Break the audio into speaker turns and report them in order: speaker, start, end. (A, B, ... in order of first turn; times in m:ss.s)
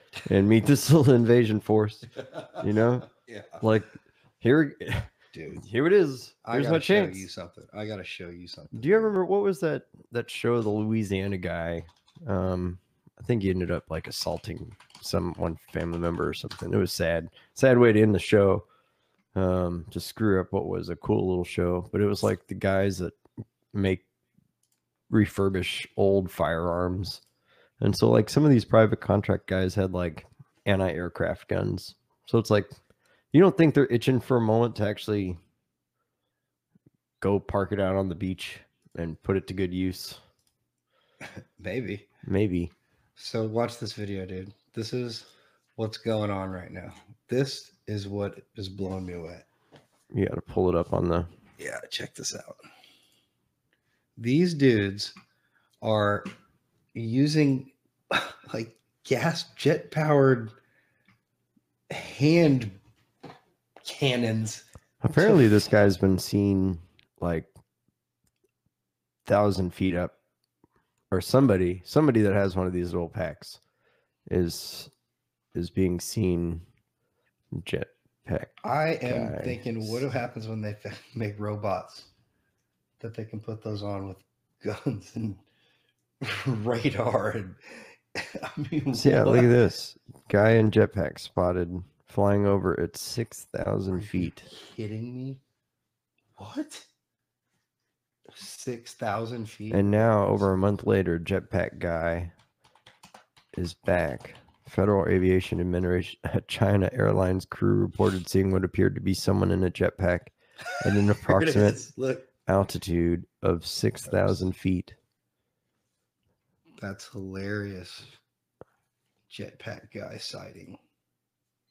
0:00.2-0:03.1 A
0:02.2-0:03.6 B
0:03.6-0:07.3 A
0:05.3-0:05.6 B
0:06.4-0:09.1 B
0:08.7-0:18.6 A
0:19.3-0:23.2 A
0:23.7-0:24.0 A
0:25.1-0:27.2 A
0:27.8-0:32.7 A
0:33.3-0:35.4 A
0:37.2-0:40.2 A
0:41.2-0:42.1 B
0:42.2-0:42.7 A
0:43.2-0:49.5 B
0:50.1-0:51.3 A
0:51.6-0:52.6 B
0:54.2-0:55.1 B
0:55.8-0:56.3 B
0:56.9-1:00.5 B
1:01.9-1:02.8 B
1:03.8-1:05.6 B
1:05.0-1:07.5 A
1:09.2-1:10.1 A
1:11.1-1:13.6 A
1:14.3-1:14.9 A
1:15.5-1:16.6 A
1:17.5-1:18.5 A
1:18.6-1:22.1 B
1:19.0-1:20.0 A
1:23.0-1:25.4 B
1:26.2-1:29.6 B
1:28.9-1:34.5 A
1:33.9-1:35.4 B
1:36.4-1:36.9 B
1:38.3-1:40.5 B
1:39.7-1:42.3 A
1:43.5-1:51.8 A
1:50.8-1:52.3 B
1:52.4-1:55.0 A
1:56.8-1:58.1 B
1:59.3-2:00.8 B